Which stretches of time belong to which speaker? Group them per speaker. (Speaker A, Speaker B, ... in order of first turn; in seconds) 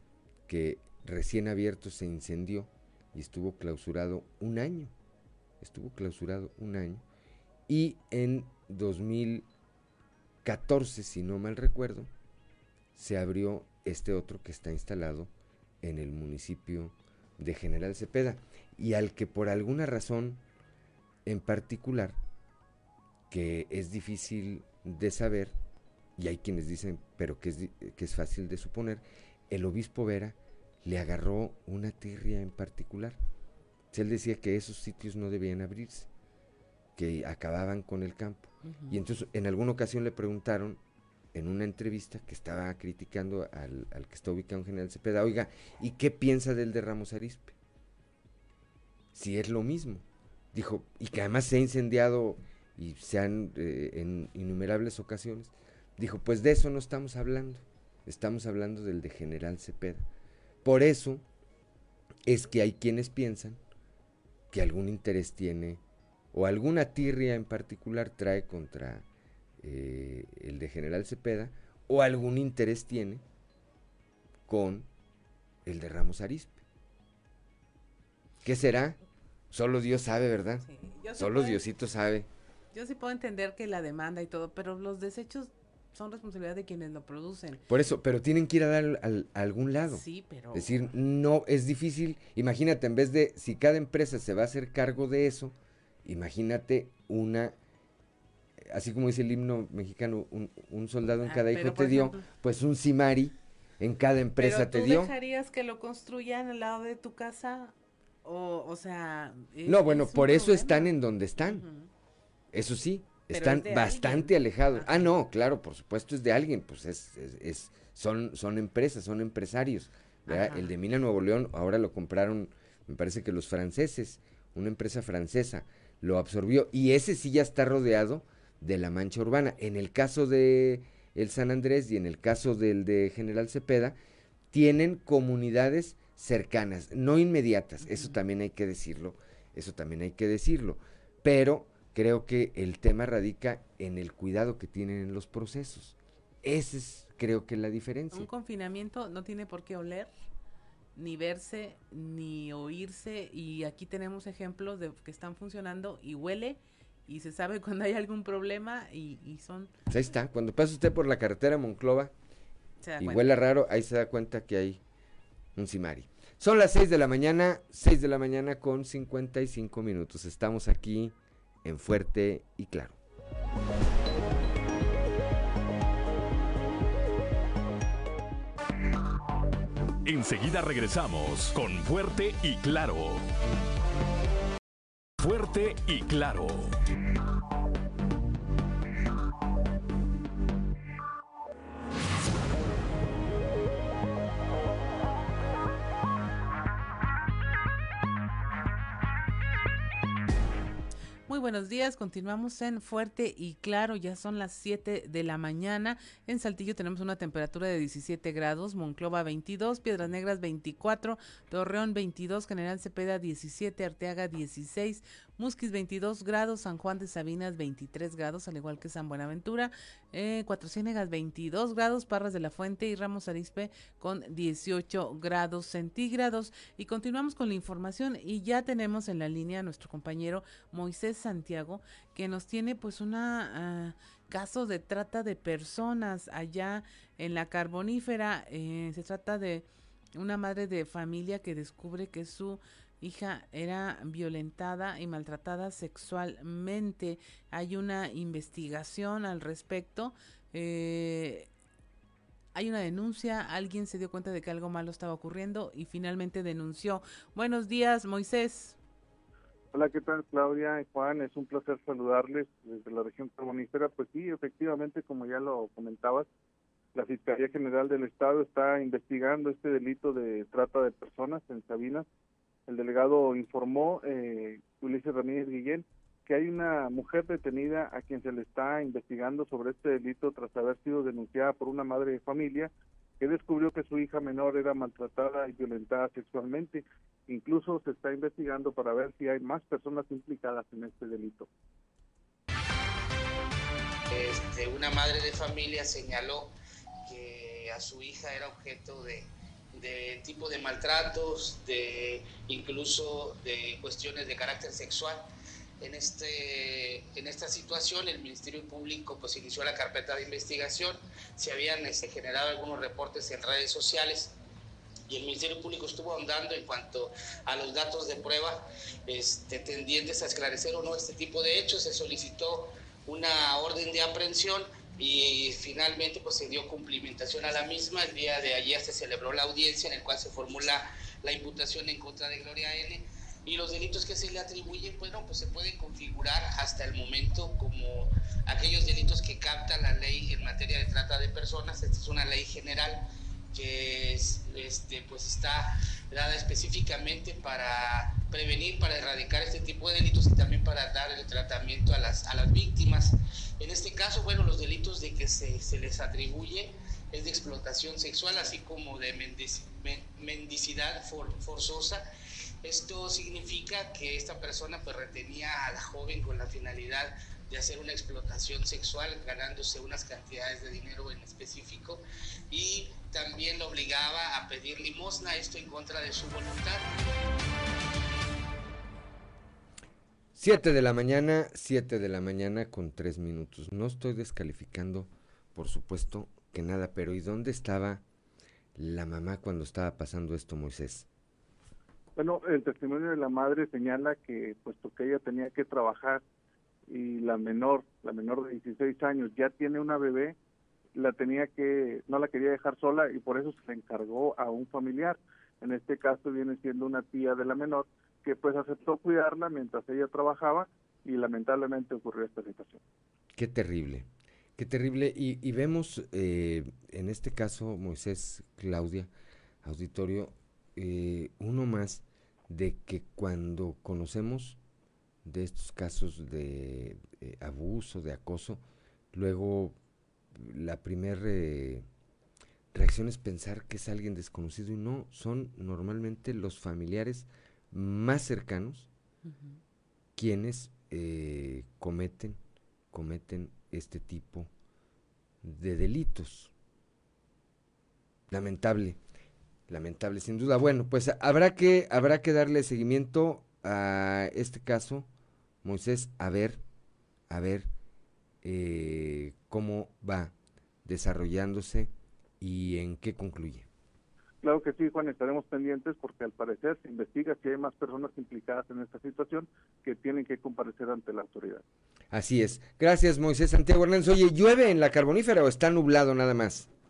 Speaker A: 0.5-4.9, 5.6-7.0, 7.7-9.4, 10.4-12.1, 12.9-15.3, 15.8-20.4, 21.2-22.2, 23.3-25.6, 26.2-33.2, 33.9-36.1, 37.0-40.8, 41.3-47.5, 49.1-60.1, 60.6-61.2, 62.2-63.6, 64.5-65.8, 66.3-69.0, 69.6-73.2, 74.5-74.9, 75.6-76.6, 78.4-79.0, 79.5-82.3, 87.7-97.5, 98.6-105.1, 109.7-111.6, 112.5-134.0, 134.5-148.3, 159.9-162.1, 163.0-164.8, 165.5-173.0, 380.3-388.0, 388.7-391.1, 413.3-419.1, 419.6-424.6, 425.2-428.6, 429.1-429.8, 430.3-431.9, 432.7-438.9, 440.1-442.4, 442.9-444.5, 445.4-446.5, 448.3-449.0, 449.7-455.1, 455.6-456.6, 457.3-457.7, 458.4-460.3, 460.8-463.7, 472.1-476.7
Speaker B: 38.6-39.0, 80.6-81.6, 82.7-87.6, 89.9-90.9, 101.2-102.2, 104.4-111.9, 113.3-115.1, 120.3-120.7, 137.8-138.1, 148.1-150.1, 150.9-159.7, 162.8-163.3, 201.3-239.6, 240.2-251.5, 252.5-258.8, 439.2-439.6
Speaker C: 180.0-183.3, 185.2-186.7
Speaker D: 259.7-266.3, 266.9-272.1, 272.7-291.5, 392.1-396.2, 396.9-400.4, 400.9-412.8, 464.4-471.6
Speaker E: 294.1-296.5, 297.1-305.2, 305.8-314.3, 315.1-343.0, 343.5-362.0, 362.6-376.8